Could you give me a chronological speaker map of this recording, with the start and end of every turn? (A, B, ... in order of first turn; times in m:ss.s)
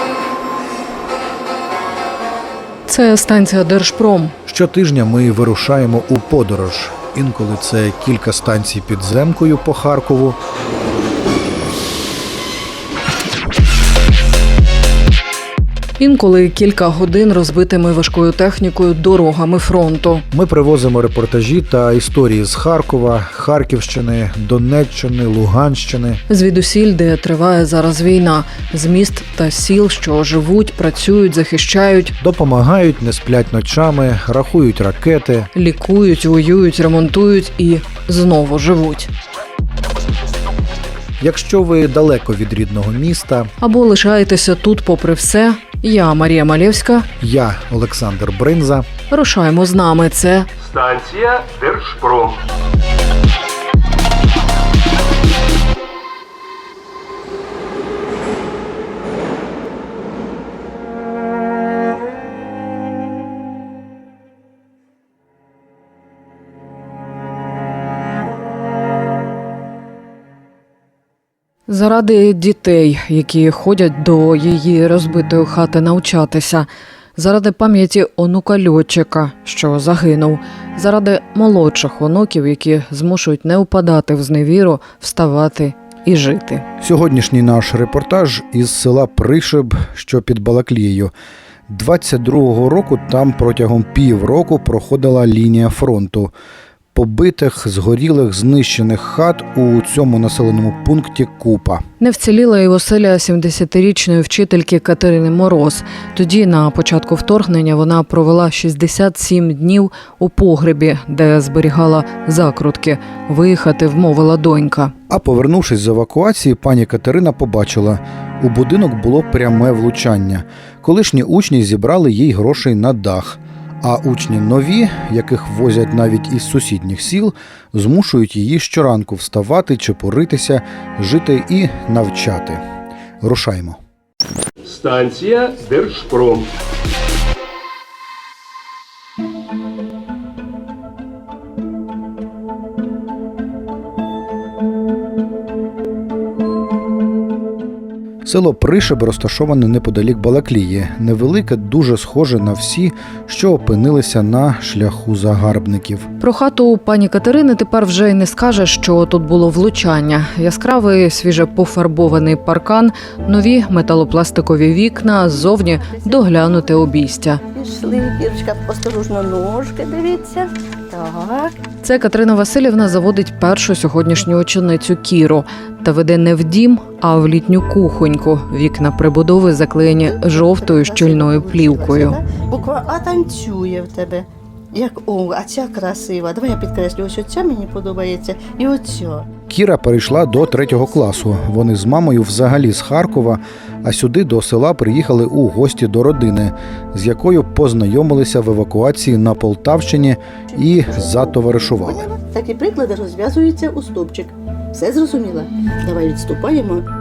0:02.9-0:04.3 A
0:04.4-0:10.4 B
0:16.0-0:20.2 A
0:20.3-0:26.2 B
0:26.3-0:32.1 A
0:32.2-0:35.5 B
0:35.5-0:39.1 A
0:41.2-0:43.5 B
0:43.6-0:47.1 A
0:47.2-0:48.9 B
0:49.1-0:50.5 A
0:50.6-0:52.4 C
1:11.7-1:26.6 A
1:26.8-1:31.1 B
1:31.7-1:36.3 B
1:36.9-1:41.8 B
1:42.0-1:54.9 A
1:55.1-2:12.6 B
2:13.2-2:13.8 B
2:14.6-2:16.5 C
2:28.2-2:36.1 B
2:36.2-2:47.4 A
2:45.8-2:46.6 D
2:47.5-2:51.5 D
2:51.8-3:02.2 A
3:00.0-3:09.3 D
3:09.5-3:22.1 B
3:20.9-3:26.8 D